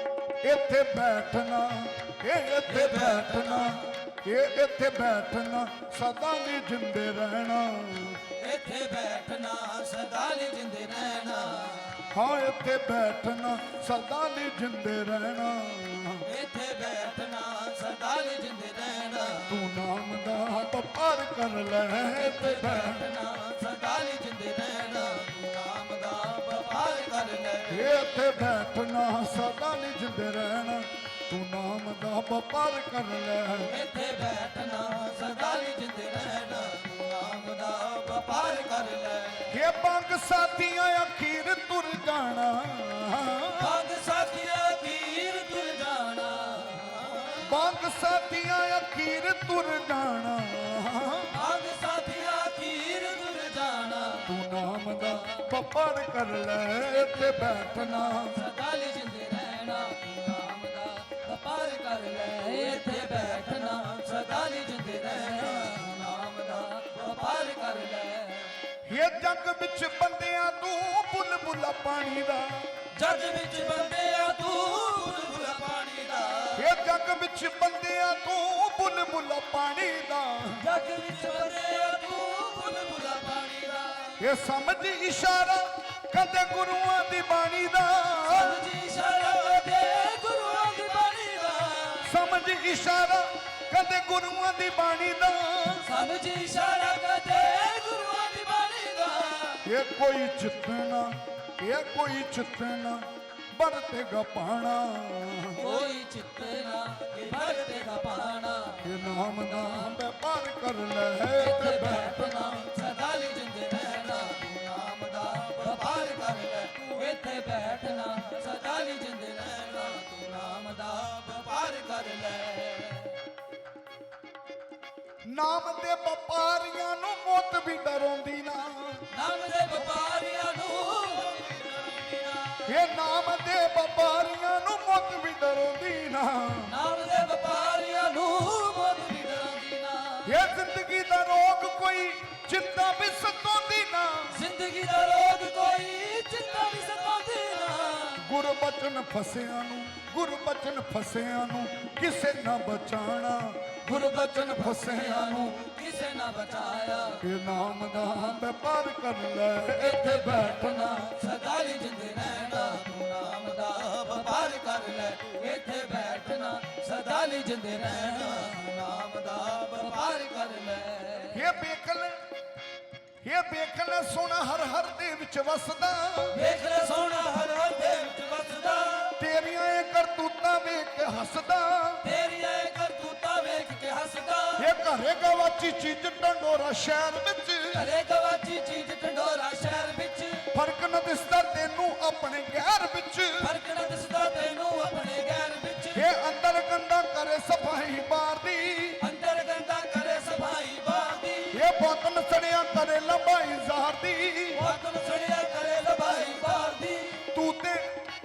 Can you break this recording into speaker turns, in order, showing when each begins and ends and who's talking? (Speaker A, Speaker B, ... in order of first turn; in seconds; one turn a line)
Speaker A: 0.4-8.2
Speaker B: 2.7-3.8
Speaker B: 8.3-12.1
Speaker A: 12.1-16.2
Speaker B: 16.2-19.5
Speaker A: 19.5-23.1
Speaker B: 22.2-27.9
Speaker A: 27.7-33.7
Speaker B: 33.6-39.5
Speaker A: 39.5-43.8
Speaker B: 43.5-47.4
Speaker A: 47.4-51.3
Speaker B: 51.3-54.3
Speaker A: 54.2-58.4
Speaker B: 58.1-68.5
Speaker A: 68.8-72.7
Speaker B: 72.9-76.6
Speaker A: 76.5-80.6
Speaker B: 80.6-84.2
Speaker A: 84.2-88.7
Speaker B: 88.3-92.1
Speaker A: 92.0-95.8
Speaker B: 95.8-99.6
Speaker A: 99.6-105.6
Speaker B: 105.5-108.8
Speaker A: 108.8-112.3
Speaker B: 111.4-123.2
Speaker A: 125.2-129.1
Speaker B: 129.1-132.6
Speaker A: 132.6-136.7
Speaker B: 136.7-140.3
Speaker A: 140.2-144.4
Speaker B: 144.3-148.2
Speaker A: 148.2-155.5
Speaker B: 153.8-157.2
Speaker A: 157.2-161.0
Speaker B: 159.8-171.4
Speaker A: 171.3-172.2
Speaker A: 173.2-176.4
Speaker B: 176.3-179.2
Speaker A: 179.2-182.0
Speaker B: 182.0-184.7
Speaker A: 184.6-187.8
Speaker B: 187.7-190.4
Speaker A: 190.5-193.5
Speaker B: 193.4-196.0
Speaker A: 195.9-199.0
Speaker B: 199.0-201.6
Speaker A: 201.5-204.6
Speaker B: 204.5-207.2
Speaker A: 207.3-207.8